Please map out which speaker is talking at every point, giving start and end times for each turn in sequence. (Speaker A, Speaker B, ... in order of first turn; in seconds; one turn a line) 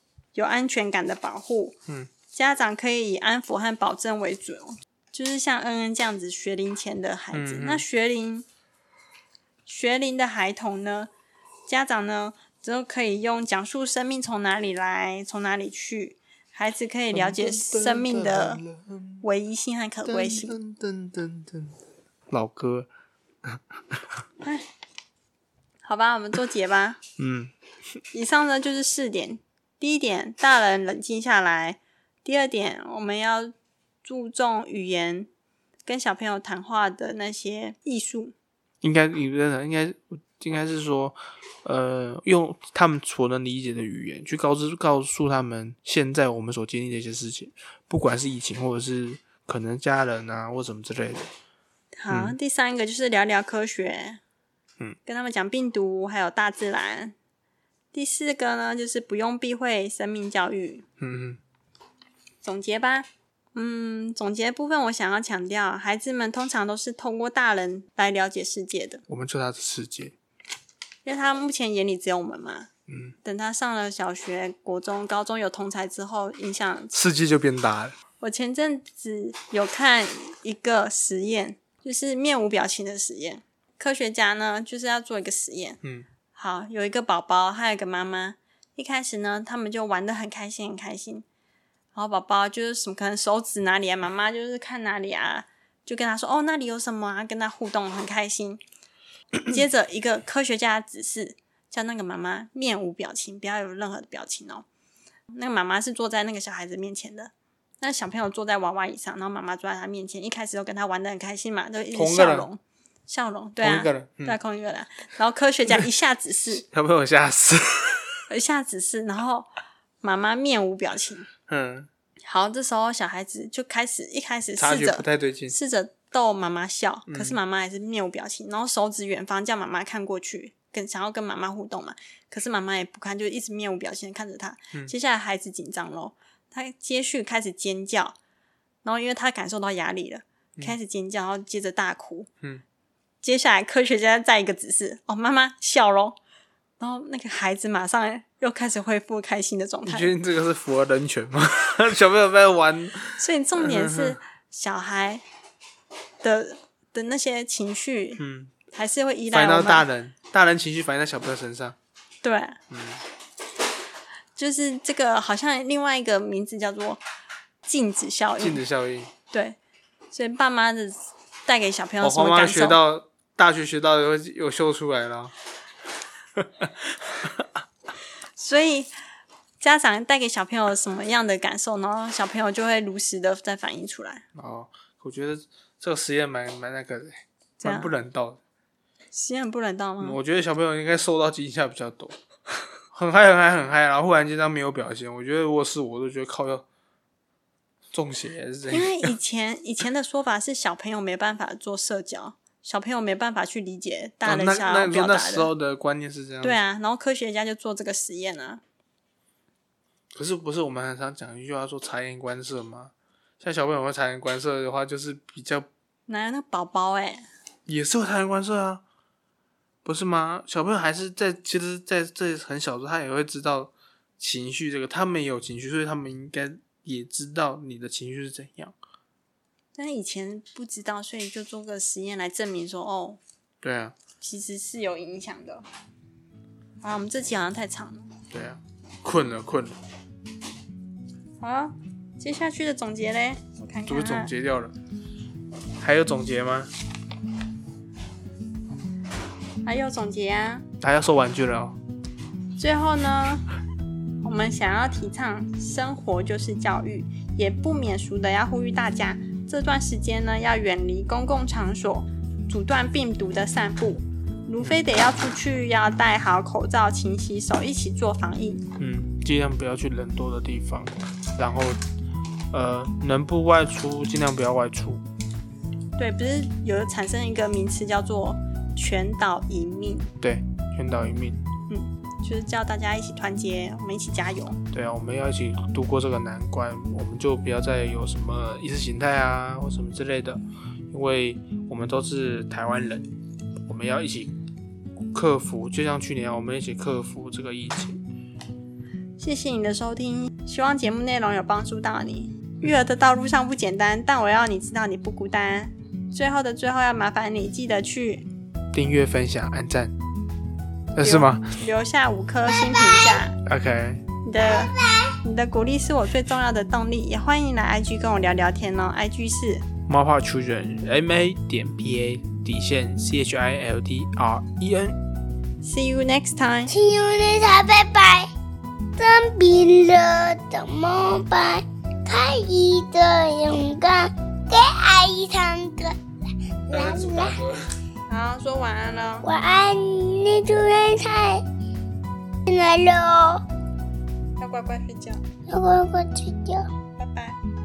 Speaker A: 0.3-1.8
Speaker A: 2.3-8.5
Speaker B: 7.3-7.8
Speaker A: 9.7-11.1
Speaker A: 11.7-18.6
Speaker B: 17.1-19.3
Speaker A: 19.2-20.6
Speaker B: 20.1-21.8
Speaker B: 22.3-22.9
Speaker B: 23.4-24.2
Speaker A: 24.4-24.7
Speaker A: 25.9-27.0
Speaker B: 27.2-27.5
Speaker A: 28.1-33.5
Speaker A: 34.0-35.3
Speaker A: 35.9-38.3
Speaker B: 38.8-51.3
Speaker A: 52.0-54.2
Speaker B: 52.1-52.4
Speaker A: 55.1-57.1
Speaker A: 57.9-60.9
Speaker B: 61.0-61.4
Speaker A: 62.4-69.0
Speaker B: 69.1-70.2
Speaker A: 71.0-72.7
Speaker B: 72.9-73.2
Speaker A: 73.2-76.9
Speaker B: 76.9-78.0
Speaker A: 78.2-85.8
Speaker B: 85.8-86.1
Speaker A: 86.4-91.2
Speaker A: 92.0-98.6
Speaker A: 99.4-104.7
Speaker A: 105.3-116.7
Speaker B: 111.9-112.5
Speaker B: 113.6-114.4
Speaker B: 116.6-118.2
Speaker A: 118.3-119.5
Speaker A: 120.0-121.3
Speaker B: 121.5-121.9
Speaker A: 122.2-138.2
Speaker B: 124.6-125.5
Speaker B: 127.1-127.4
Speaker A: 138.8-142.3
Speaker A: 143.2-146.2
Speaker A: 146.8-150.1
Speaker B: 149.9-154.2
Speaker A: 153.2-155.2
Speaker A: 156.2-159.9
Speaker B: 158.2-158.5
Speaker B: 159.3-161.8
Speaker A: 162.2-162.6
Speaker B: 162.7-163.0
Speaker A: 164.4-167.0
Speaker A: 167.7-168.6
Speaker B: 168.4-169.1
Speaker A: 169.3-169.6
Speaker A: 170.1-172.8
Speaker B: 172.0-175.3
Speaker B: 176.4-177.5
Speaker A: 178.4-178.9
Speaker A: 179.6-184.2
Speaker B: 184.3-188.4
Speaker A: 187.6-187.9
Speaker A: 189.1-190.2
Speaker B: 190.0-192.2
Speaker B: 192.9-196.7
Speaker B: 197.9-199.1
Speaker A: 198.7-205.5
Speaker B: 204.2-206.6
Speaker A: 206.4-208.6
Speaker B: 210.1-215.7
Speaker A: 216.1-217.3
Speaker B: 217.7-218.8
Speaker B: 219.8-228.8
Speaker A: 229.8-233.2
Speaker B: 233.6-234.0
Speaker A: 234.2-235.7
Speaker A: 236.8-238.1
Speaker B: 238.3-239.8
Speaker A: 241.4-244.3
Speaker B: 243.9-244.8
Speaker B: 245.8-246.7
Speaker A: 249.7-250.7
Speaker B: 250.8-251.8
Speaker A: 252.6-253.5
Speaker A: 254.2-268.6
Speaker B: 268.8-271.8
Speaker B: 272.5-275.0
Speaker A: 276.0-280.1
Speaker B: 280.2-281.5
Speaker A: 281.7-284.6
Speaker B: 284.7-293.1
Speaker B: 293.7-294.4
Speaker B: 295.1-298.0
Speaker A: 299.2-308.3
Speaker B: 308.7-309.9
Speaker B: 310.9-311.5
Speaker A: 311.0-313.4
Speaker B: 313.4-314.0
Speaker A: 314.2-319.6
Speaker B: 319.9-325.0
Speaker A: 325.6-326.7
Speaker C: 326.7-328.3
Speaker C: 329.0-336.0
Speaker C: 336.7-337.4
Speaker B: 336.7-337.7
Speaker A: 338.1-339.3
Speaker C: 339.2-341.4
Speaker C: 342.5-343.4
Speaker A: 344.4-345.2
Speaker C: 345.5-346.7
Speaker A: 347.0-347.4